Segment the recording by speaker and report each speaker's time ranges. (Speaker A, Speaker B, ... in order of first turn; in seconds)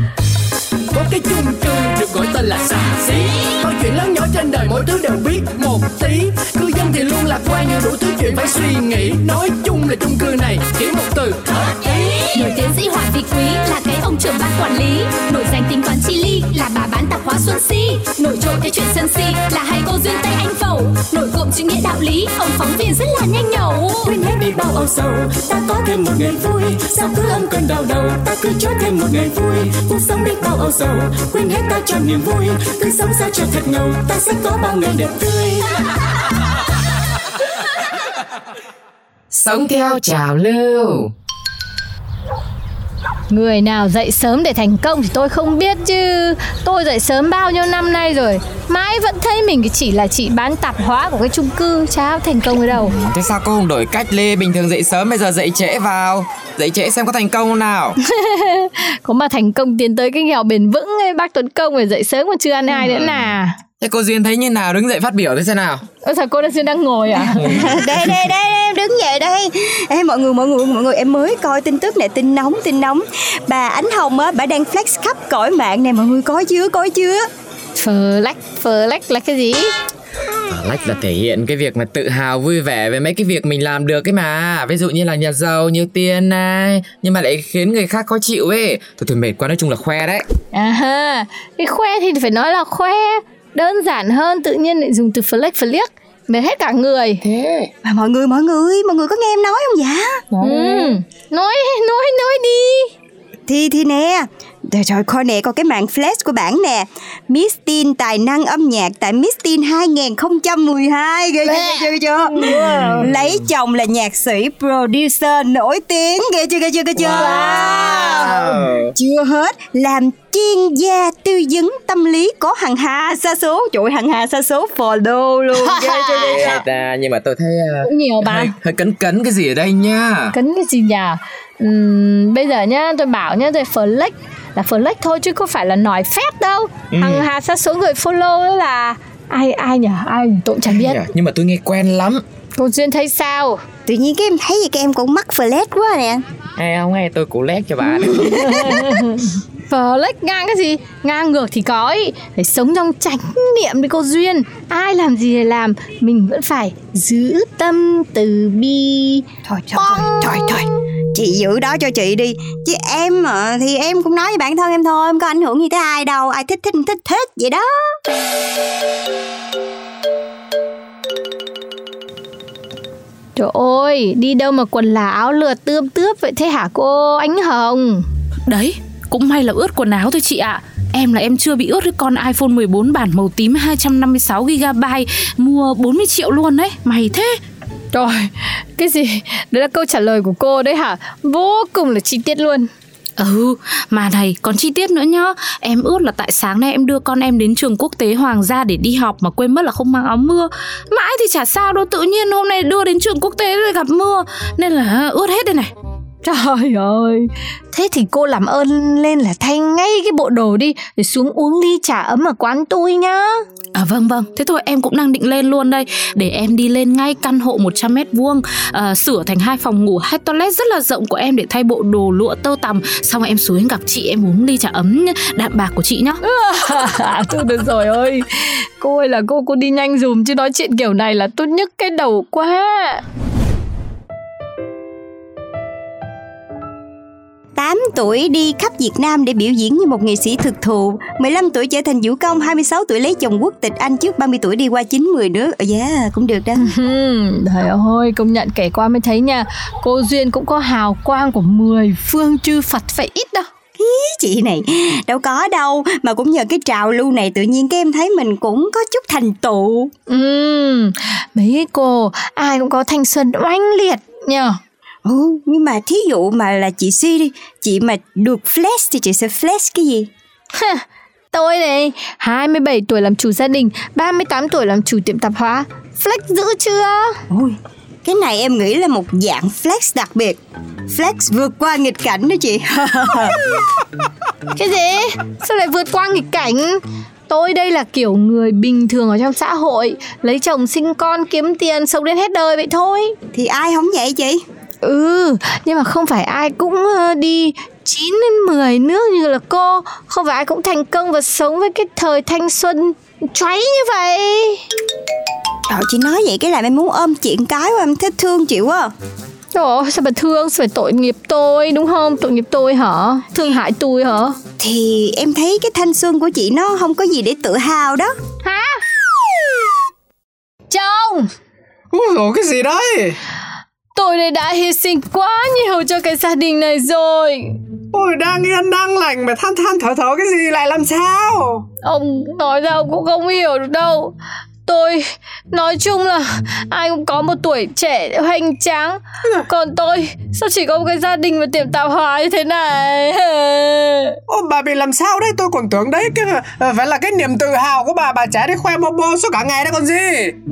Speaker A: 0.9-12.5
Speaker B: 12.6-23.8
Speaker C: 24.0-35.7
Speaker D: 39.3-41.1, 52.9-58.0, 63.8-65.8, 80.5-90.2, 97.2-97.7, 100.3-100.9, 118.2-118.9, 126.1-130.3, 136.9-137.3, 140.7-142.2, 146.6-149.0
Speaker E: 43.3-52.9, 58.1-63.5, 66.0-67.7, 77.8-79.7, 90.5-97.2, 100.4-102.9, 111.4-113.0, 117.1-118.5, 125.6-126.5, 127.8-128.5, 130.3-141.0, 142.5-143.6, 148.4-159.2, 173.3-178.0, 187.9-192.7, 206.2-213.4, 226.2-233.0, 246.6-253.5, 260.1-264.6, 270.5-277.2, 284.5-293.1, 294.8-304.6, 309.5-314.4, 318.4-318.8, 320.7-321.3, 323.9-327.5, 331.8-334.1, 334.6-344.2
Speaker F: 67.5-77.2, 97.8-100.2, 103.5-118.2, 118.9-126.6, 143.8-146.2, 159.5-167.7, 237.6-246.7, 253.8-259.9, 265.0-270.1, 277.3-283.4, 293.3-294.4, 305.7-308.9, 314.6-318.1
Speaker G: 178.4-187.4, 193.2-205.7, 213.7-226.2
Speaker H: 321.9-323.2, 327.9-331.6, 344.3-350.4